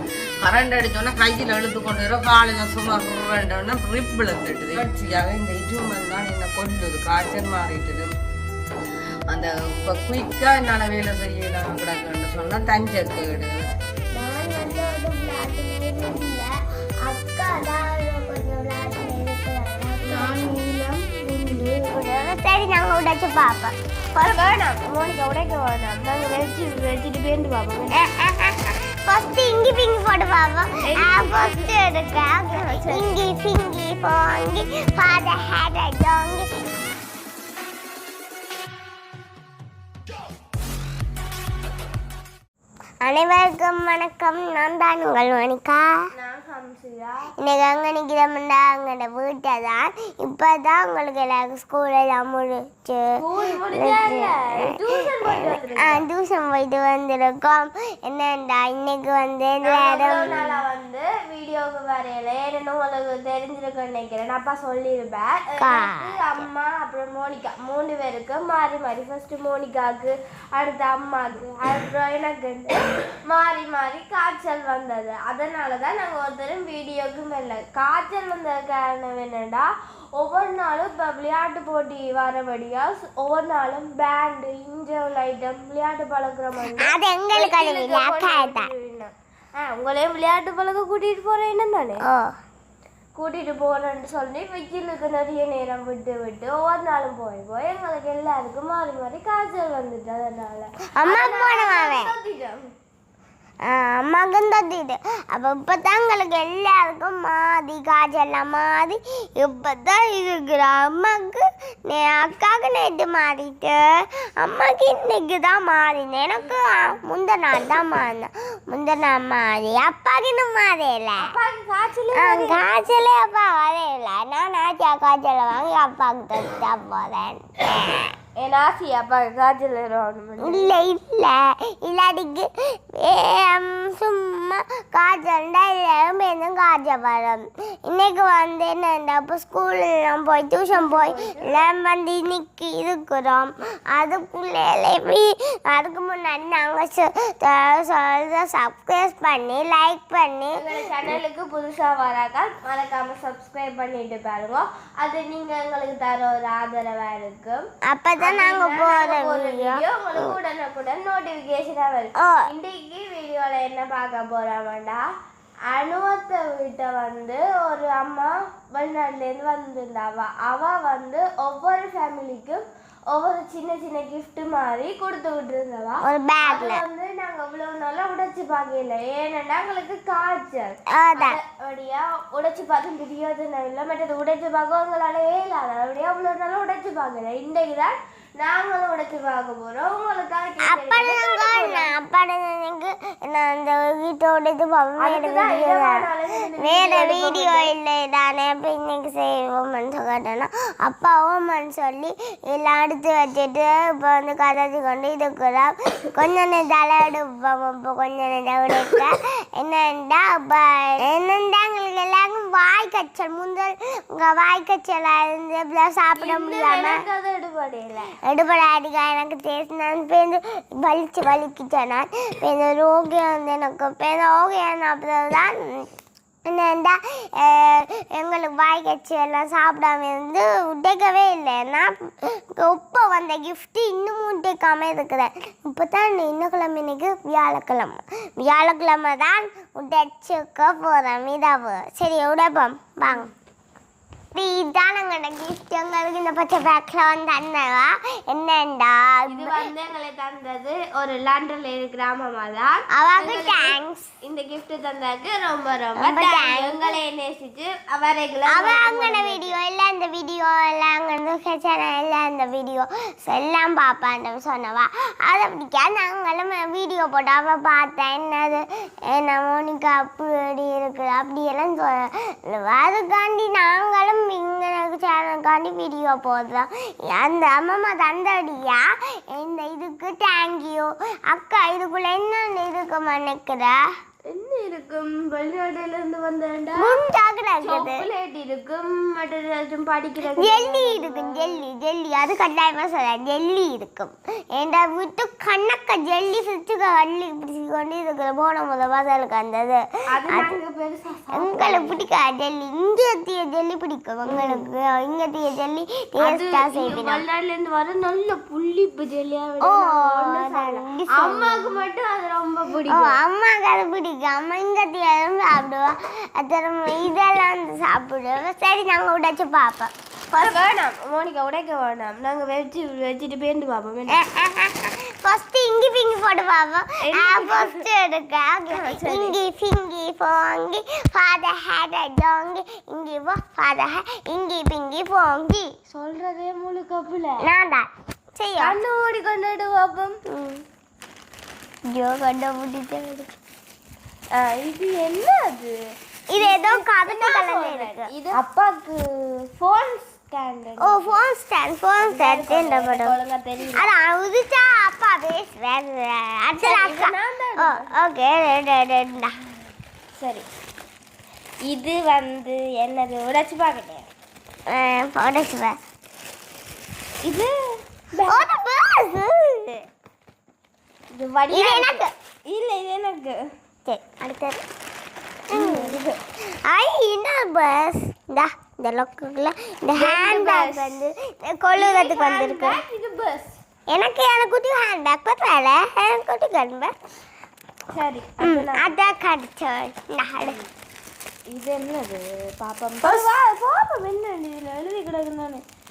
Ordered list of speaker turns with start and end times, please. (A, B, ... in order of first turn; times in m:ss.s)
0:00.4-0:08.1 A
0:09.3-0:13.7 A
0:14.1-0:16.5 B
0:17.1-0:20.5 B
0:20.0-0:22.0 C
0:21.9-0:23.8 B
0:24.1-0:28.0 C
0:27.9-0:36.5 B
0:30.8-0:31.8 C
0:32.4-0:33.2 C
0:43.0-0:45.9 B
0:46.2-0:47.3 C
0:47.4-1:00.6 B
0:53.2-0:56.0 C
0:59.6-1:32.0 C
1:05.6-1:06.2 B
1:26.8-1:28.7 B
1:32.0-1:32.4 B
1:33.2-1:42.7 C
1:41.0-1:42.1 B
1:43.6-2:01.3 B
2:01.2-2:02.7 C
2:02.1-2:08.1 B
2:08.4-2:10.8 C
2:10.4-2:31.2 B
2:20.7-2:21.6 C
2:30.6-2:37.6 C
2:37.9-2:40.4 B
2:38.2-2:45.0 C
2:42.2-2:42.5 B
2:45.7-3:11.9 C
2:56.0-2:56.8 B
3:00.9-3:01.4 B
3:10.6-3:37.0 B
3:15.0-3:17.7 C
3:36.2-3:38.2 C
3:38.2-3:45.9 B
3:46.5-4:03.3 B
4:04.3-4:09.7 B
4:09.3-4:19.6 C
4:12.9-4:14.1 B
4:16.0-4:17.0 B
4:18.5-4:43.8 B
4:44.3-4:47.0 C
4:46.8-4:48.1 B
4:47.6-4:51.6 C
4:50.3-5:00.6 B
5:00.1-5:02.1 C
5:01.3-5:07.2 B
5:04.3-5:04.6 C
5:06.2-5:13.2 C
5:09.6-5:11.8 B
5:12.9-5:20.5 B
5:20.3-5:24.2 C
5:24.1-5:35.7 B
5:27.0-5:27.8 C
5:28.7-5:29.4 C
5:35.9-5:37.5 C
5:37.4-5:38.8 B
5:38.6-5:40.2 C
5:40.3-5:40.6 B
5:41.9-5:43.3 B
5:44.3-5:45.8 C
5:46.3-5:48.1 B
5:46.4-5:51.3 C
5:50.8-5:53.2 B
5:52.1-5:53.9 C
5:53.7-5:59.4 B
5:56.6-5:57.9 C
6:00.2-6:00.5 C
6:01.7-6:04.1 C
6:04.7-6:05.8 B
6:07.2-6:07.5 C
6:08.1-6:08.5 C
6:08.2-6:09.8 B
6:11.1-6:13.4 C
6:11.5-6:12.1 B
6:13.9-6:14.6 B
6:15.5-6:22.8 B
6:15.5-6:16.2 C
6:20.0-6:21.0 C
6:21.8-6:23.6 C
6:23.9-6:26.9 B
6:27.9-6:28.9 C
6:28.4-6:30.6 B
6:31.5-6:35.6 C
6:33.0-6:33.3 B